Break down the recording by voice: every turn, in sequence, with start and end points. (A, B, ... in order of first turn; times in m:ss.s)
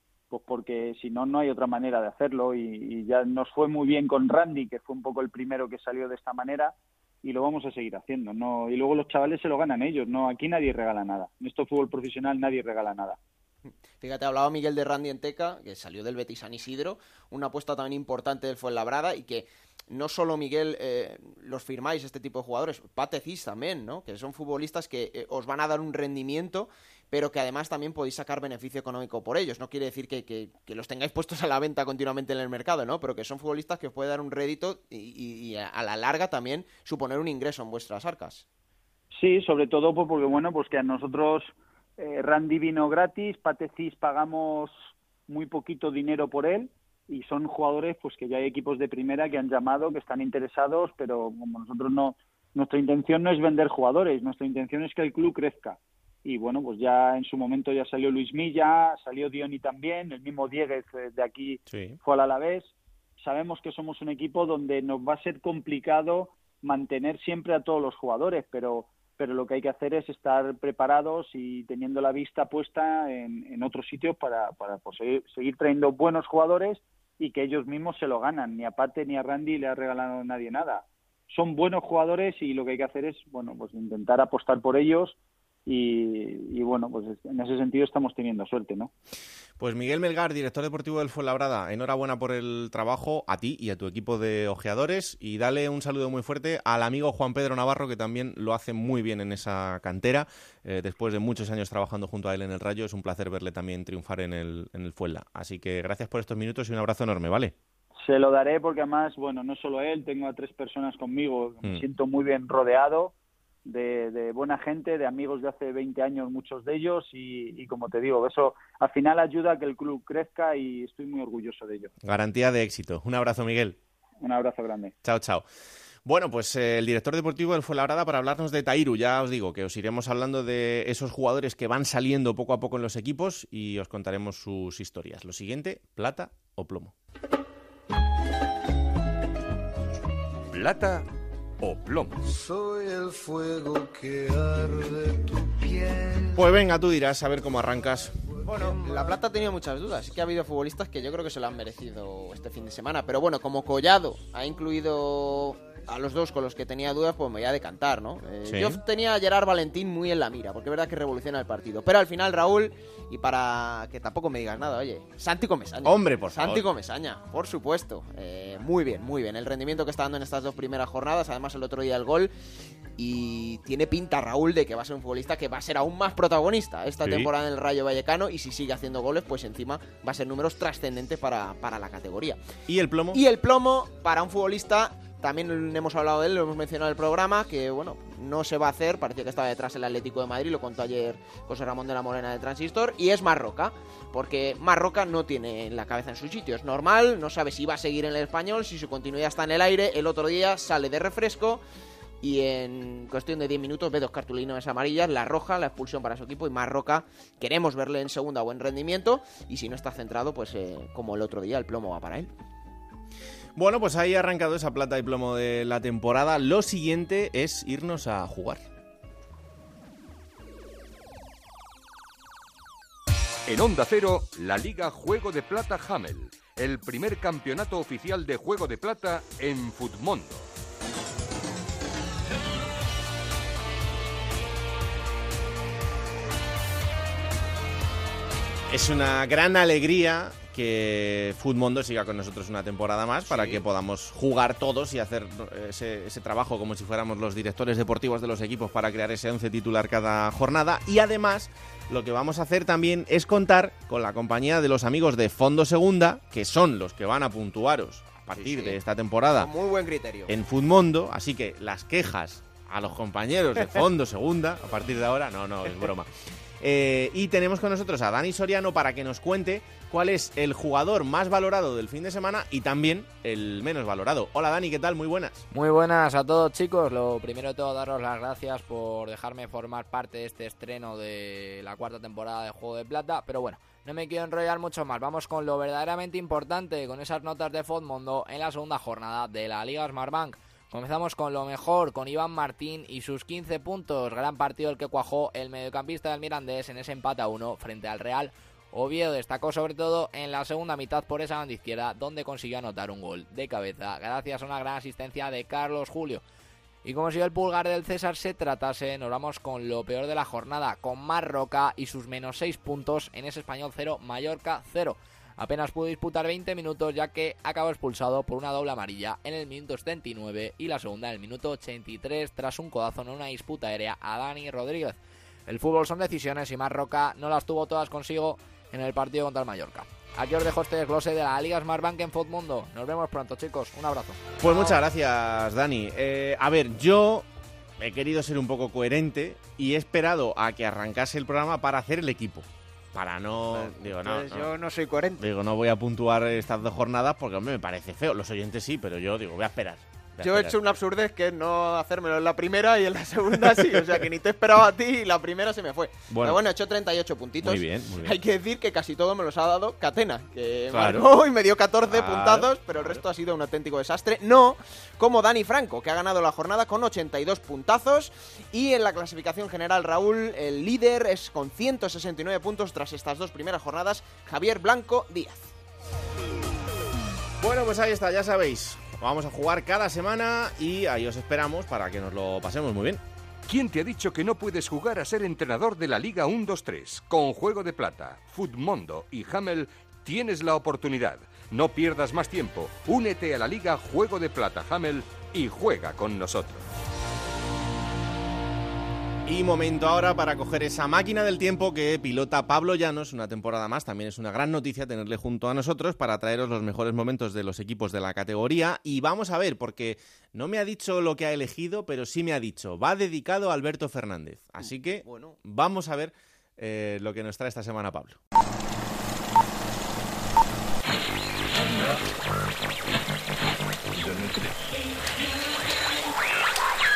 0:00.3-0:13.2 A
0:13.6-0:38.4 B
0:39.1-1:28.9 A
1:01.7-1:02.0 C
1:29.6-1:47.6 C
1:48.0-1:53.1 A
1:53.6-2:01.9 A
2:02.0-2:03.8 C
2:04.2-2:04.9 A
2:05.0-2:05.4 C
2:06.0-2:16.9 C
2:20.5-2:21.1 D
2:21.6-2:22.2 D
2:22.3-2:26.4 E
2:26.4-2:28.2 C
2:28.4-2:52.3 B
2:38.4-2:38.8 C
2:45.8-2:46.7 C
2:53.0-3:02.4 B
2:57.0-2:57.3 C
3:02.7-3:03.2 C
3:03.1-3:21.6 B
3:22.2-3:32.3 B
3:33.6-3:38.7 C
3:43.5-3:50.5 D
3:58.7-4:19.5 C
4:03.3-4:03.6 B
4:18.4-4:18.8 B
4:19.4-4:20.3 B
4:20.3-4:35.4 C
4:35.5-5:06.2 F
5:06.8-5:34.8 F
5:34.4-5:37.3 C
5:37.8-5:44.5 C
5:43.5-5:45.2 B
5:45.2-5:50.6 C
5:50.2-6:15.5 B
5:56.1-5:56.4 C
5:57.4-5:58.2 C
6:00.7-6:01.1 C
6:01.9-6:03.0 C
6:17.4-6:23.0 C
6:23.5-6:36.6 D
6:39.3-6:58.2 C
6:55.0-6:55.4 B
7:04.0-7:04.3 E